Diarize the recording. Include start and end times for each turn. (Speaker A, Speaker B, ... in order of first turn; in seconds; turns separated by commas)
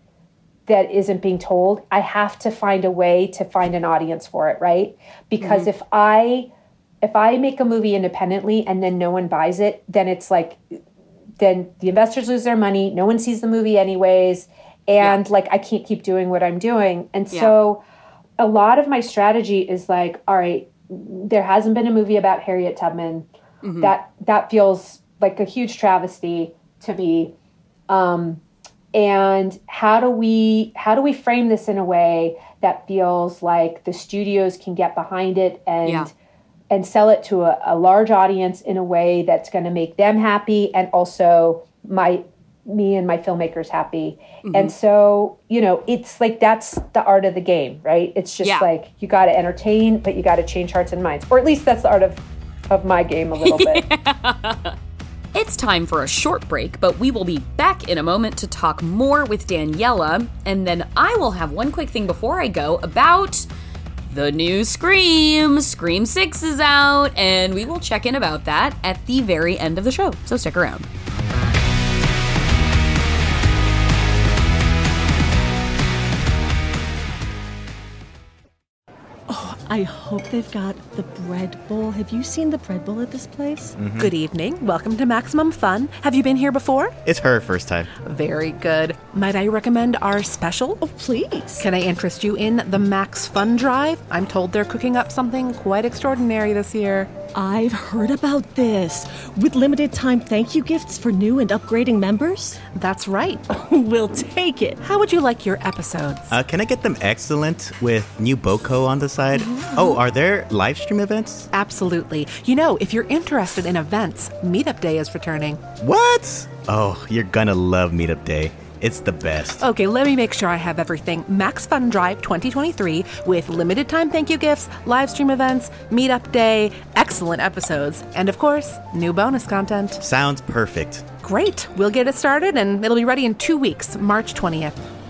Speaker A: 0.7-6.5, Speaker B: 5.4-5.7, Speaker A: 7.0-10.6, Speaker A: 11.4-17.8, Speaker A: 18.4-23.3, Speaker B: 23.6-23.9, Speaker A: 23.8-27.3, Speaker A: 27.9-28.4, Speaker A: 28.9-36.1, Speaker B: 35.8-36.1, Speaker A: 36.7-53.8, Speaker B: 44.4-44.7, Speaker B: 48.4-48.7, Speaker B: 53.4-54.8, Speaker B: 55.3-63.5, Speaker B: 64.1-70.9, Speaker C: 79.3-83.7, Speaker D: 83.8-84.1, Speaker E: 83.9-87.0, Speaker D: 87.0-87.9, Speaker E: 88.0-97.2, Speaker C: 97.3-102.6, Speaker E: 102.7-103.5, Speaker C: 103.6-104.8, Speaker E: 104.8-106.3, Speaker D: 106.3-111.5, Speaker E: 109.3-110.0, Speaker E: 111.5-115.6, Speaker D: 115.8-119.6, Speaker E: 119.6-130.0, Speaker D: 130.0-131.1, Speaker E: 131.2-134.8